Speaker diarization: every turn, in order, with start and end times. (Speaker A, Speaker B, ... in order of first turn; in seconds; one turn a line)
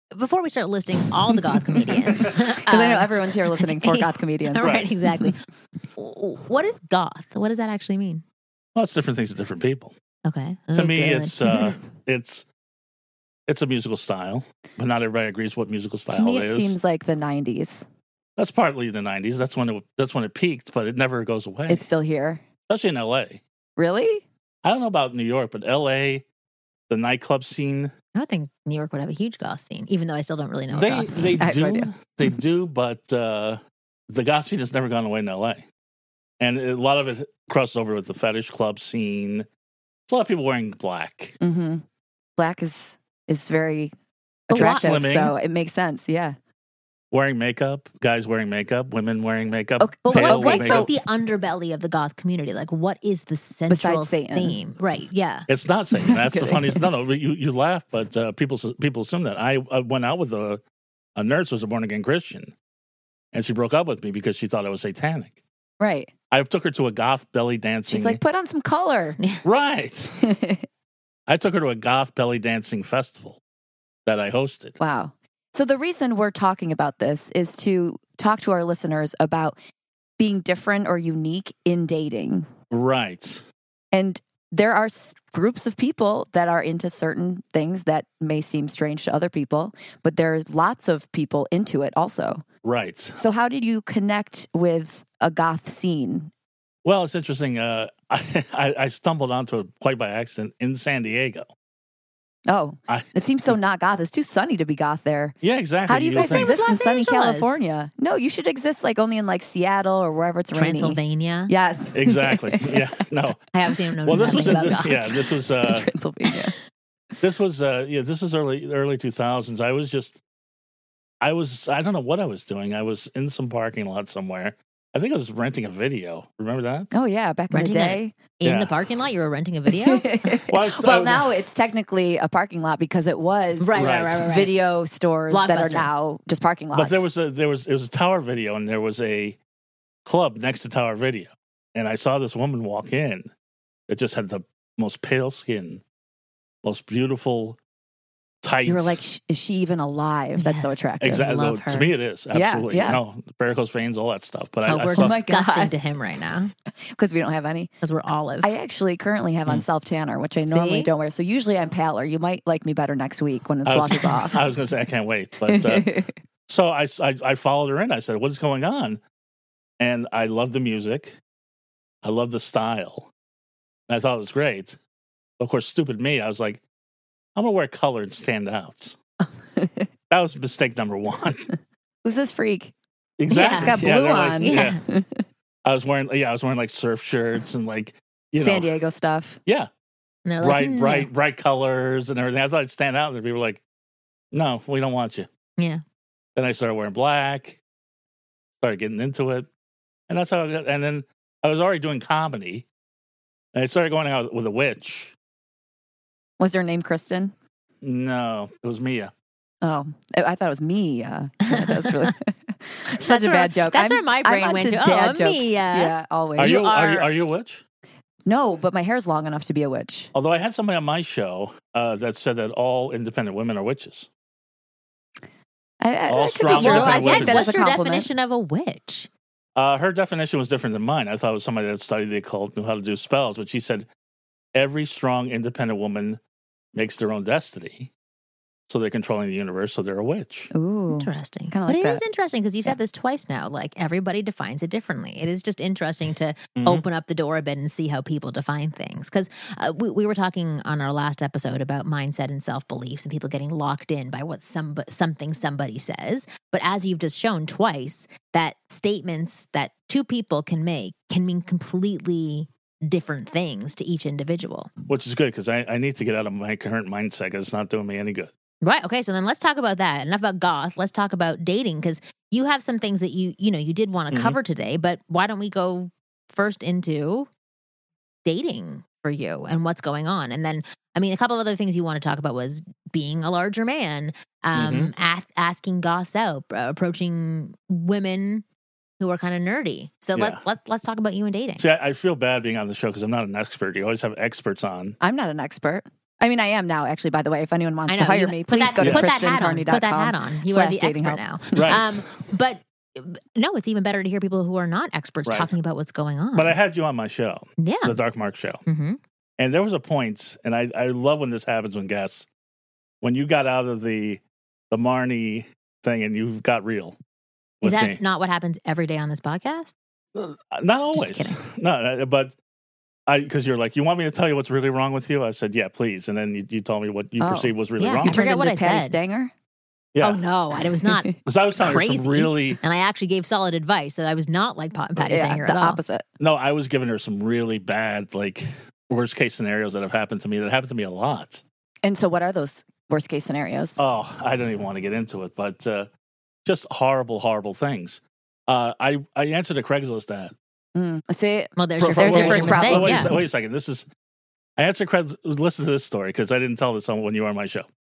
Speaker A: 0.1-5.4
Speaker B: 2.1-5.3
Speaker C: 4.6-4.9
Speaker A: 6.0-8.2
Speaker C: 8.8-9.9
Speaker A: 10.2-11.8
Speaker C: 10.7-12.4
Speaker B: 11.0-11.3
Speaker C: 13.5-16.8
Speaker B: 16.1-17.9
Speaker C: 18.4-21.9
Speaker B: 21.7-22.4
Speaker C: 22.7-23.4
Speaker B: 23.8-24.2
Speaker C: 24.6-26.2
Speaker C: 26.9-27.9
Speaker A: 28.1-31.4
Speaker C: 30.7-35.6
Speaker B: 31.4-31.9
Speaker C: 36.4-39.5
Speaker C: 40.1-41.4
Speaker B: 41.4-41.9
Speaker B: 42.4-43.9
Speaker B: 44.5-46.4
Speaker A: 44.5-44.9
Speaker C: 44.5-45.3
Speaker C: 47.1-50.9
Speaker B: 49.8-50.9
Speaker A: 50.1-55.5
Speaker B: 53.7-54.6
Speaker C: 55.5-60.6
Speaker B: 55.9-56.9
Speaker C: 61.2-62.5
Speaker C: 63.3-65.4
Speaker B: 65.8-66.1
Speaker C: 66.3-68.2
Speaker B: 67.9-69.2
Speaker C: 69.4-70.2
Speaker B: 70.2-70.7
Speaker C: 71.3-73.4
Speaker C: 74.1-74.8
Speaker B: 74.8-79.6
Speaker B: 80.2-82.5
Speaker C: 82.7-83.5
Speaker B: 83.9-92.4
Speaker C: 92.6-93.2
Speaker B: 93.2-96.3
Speaker C: 96.8-101.5
Speaker B: 102.5-112.8
Speaker C: 102.9-103.5
Speaker C: 105.4-106.6
Speaker A: 106.2-107.6
Speaker A: 110.5-111.5
Speaker C: 112.0-113.4
Speaker A: 113.5-115.2
Speaker C: 114.0-115.9
Speaker B: 114.4-114.7
Speaker B: 115.6-116.6
Speaker C: 117.2-120.2
Speaker C: 121.2-126.9
Speaker B: 126.9-128.2
Speaker A: 127.5-130.1
Speaker C: 128.4-128.8
Speaker B: 129.7-137.1
Speaker C: 130.5-131.3
Speaker A: 133.6-134.5
Speaker C: 133.8-134.2
Speaker A: 135.3-135.9
Speaker C: 136.7-139.4
Speaker C: 140.1-143.3
Speaker C: 143.9-145.8
Speaker C: 146.6-147.6
Speaker C: 148.4-149.0
Speaker B: 148.7-151.3
Speaker A: 150.4-151.9
Speaker C: 151.0-155.2
Speaker B: 152.3-153.0
Speaker A: 154.7-156.5
Speaker B: 154.9-155.7
Speaker B: 156.9-157.7
Speaker A: 157.8-158.6
Speaker B: 158.4-164.4
Speaker A: 160.5-160.9
Speaker C: 163.7-165.9
Speaker B: 165.5-166.1
Speaker C: 166.5-169.0
Speaker C: 169.8-171.2
Speaker C: 172.0-173.1
Speaker C: 173.9-174.8
Speaker C: 175.4-176.6
Speaker C: 177.4-179.0
Speaker B: 179.6-179.9
Speaker C: 180.1-181.5
Speaker B: 182.1-182.7
Speaker C: 183.2-184.8
Speaker A: 183.3-183.8
Speaker B: 183.3-185.2
Speaker A: 184.4-184.8
Speaker C: 185.6-188.7
Speaker B: 188.4-189.4
Speaker A: 190.3-191.1
Speaker C: 190.4-193.6
Speaker C: 194.3-195.3
Speaker A: 195.6-195.8
Speaker C: 196.4-197.6
Speaker C: 198.6-199.5
Speaker C: 200.1-202.7
Speaker C: 203.5-205.1
Speaker B: 206.4-207.3
Speaker C: 207.8-209.1
Speaker B: 209.6-216.9
Speaker A: 211.4-212.1
Speaker A: 212.9-217.1
Speaker C: 216.4-217.6
Speaker B: 218.3-220.1
Speaker C: 220.1-224.1
Speaker B: 225.8-228.1
Speaker C: 226.1-227.6
Speaker A: 226.4-229.1
Speaker C: 229.6-233.9
Speaker C: 234.6-236.2
Speaker C: 236.7-237.9
Speaker C: 238.7-240.5
Speaker B: 240.5-242.0
Speaker A: 240.9-264.7
Speaker C: 246.6-246.8
Speaker C: 264.9-268.3
Speaker A: 268.6-277.3
Speaker C: 274.1-274.4
Speaker A: 278.2-288.4
Speaker C: 284.5-284.9
Speaker A: 289.0-291.6
Speaker C: 290.1-290.4
Speaker C: 291.6-295.0
Speaker B: 295.0-301.2
Speaker A: 297.9-306.6
Speaker C: 298.8-299.2
Speaker C: 301.6-302.0
Speaker C: 305.3-305.5
Speaker C: 306.3-308.6
Speaker A: 307.6-308.0
Speaker A: 308.7-309.0
Speaker C: 309.4-312.3
Speaker C: 313.0-317.0
Speaker C: 317.6-318.0
Speaker A: 317.6-319.7
Speaker C: 320.1-322.4
Speaker A: 320.9-321.4
Speaker C: 323.1-328.2
Speaker B: 327.2-329.3
Speaker A: 327.8-329.0
Speaker C: 329.9-330.2
Speaker A: 330.0-335.8
Speaker B: 330.9-331.1
Speaker C: 331.2-332.6
Speaker B: 335.1-336.1
Speaker C: 336.2-341.4
Speaker B: 341.9-343.8
Speaker C: 343.8-345.9
Speaker C: 346.4-350.3
Speaker B: 350.8-353.2
Speaker A: 351.6-353.1
Speaker C: 351.8-353.9
Speaker C: 354.6-357.7